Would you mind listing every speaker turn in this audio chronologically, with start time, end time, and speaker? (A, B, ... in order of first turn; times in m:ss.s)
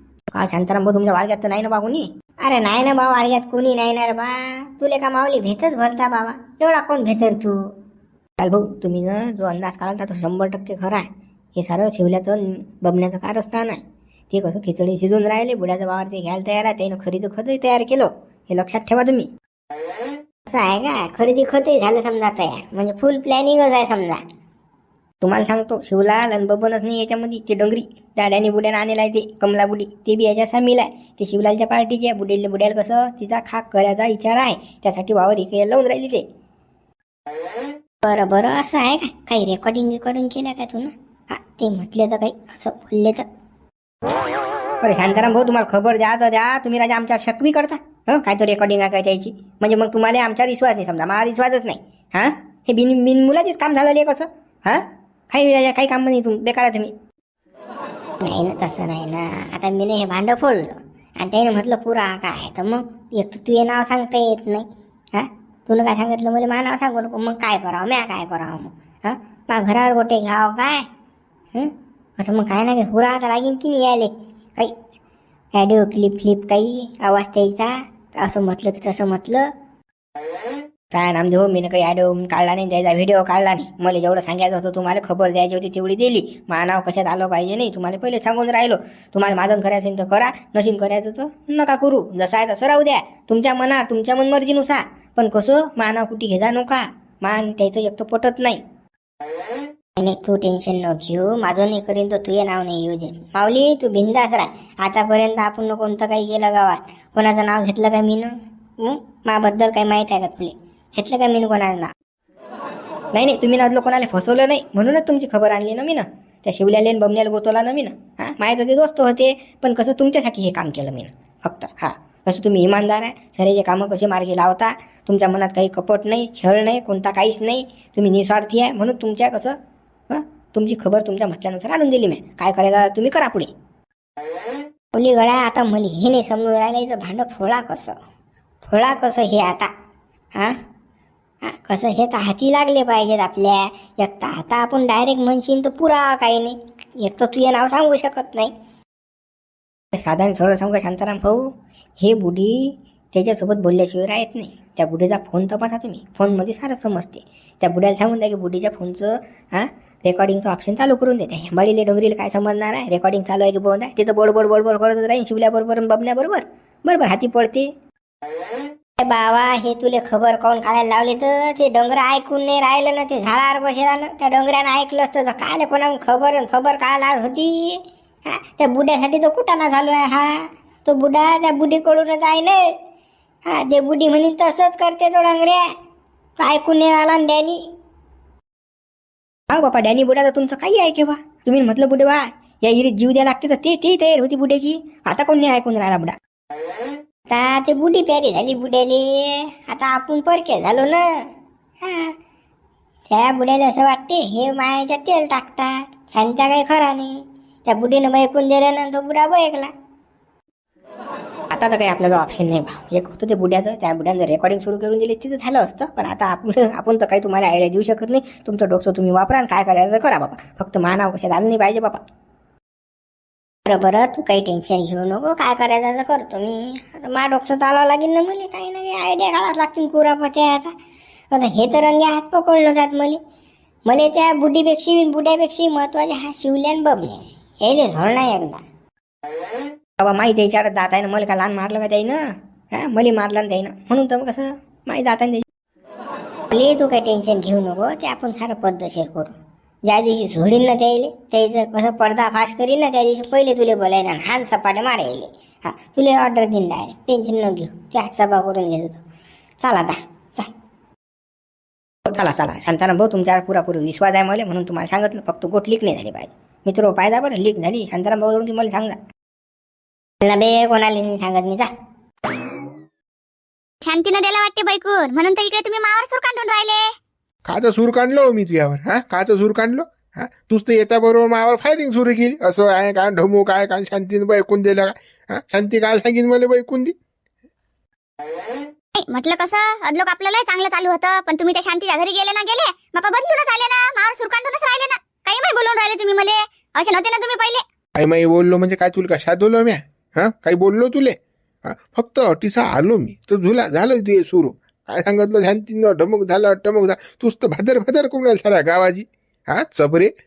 0:00.3-0:02.0 A
0:02.4-0:07.6 B
0:08.4-0:10.8 A
0:10.6-0:11.0 B
0:11.6-0:13.8 A
0:14.3-0:19.3 A
0:20.5-0:24.2 B
0:25.2-0:36.2 A
0:38.0-0:43.3 B
0:44.8-0:56.9 A
0:58.2-1:10.8 B
1:11.5-1:14.7 B
1:15.6-1:19.5 B
1:20.9-1:38.6 A
1:40.0-1:51.9 B
1:53.2-2:09.6 A
2:10.1-2:13.5 A
2:14.9-2:18.0 B
2:18.7-2:19.7 B
2:21.4-2:28.5 B
2:30.0-2:31.4 A
2:32.0-2:47.7 A
2:34.0-2:34.8 B
2:49.0-3:02.6 B
3:03.5-3:05.7 B
3:06.4-3:07.6 B
3:09.5-3:16.1 A
3:17.3-3:21.1 B
3:21.8-3:22.1 B
3:23.1-3:27.2 B
3:27.7-3:29.7 B
3:31.5-3:42.0 A
3:43.7-3:50.7 B
3:51.3-3:53.2 B
3:53.9-3:58.6 B
4:00.0-4:02.2 A
4:02.8-4:05.4 A
4:06.5-4:09.3 B
4:09.9-4:19.0 B
4:19.6-4:20.5 B
4:22.1-4:29.0 A
4:30.2-4:31.7 B
4:33.8-4:36.9 C
4:37.4-4:46.9 D
4:49.0-4:57.6 C
4:58.0-5:10.1 D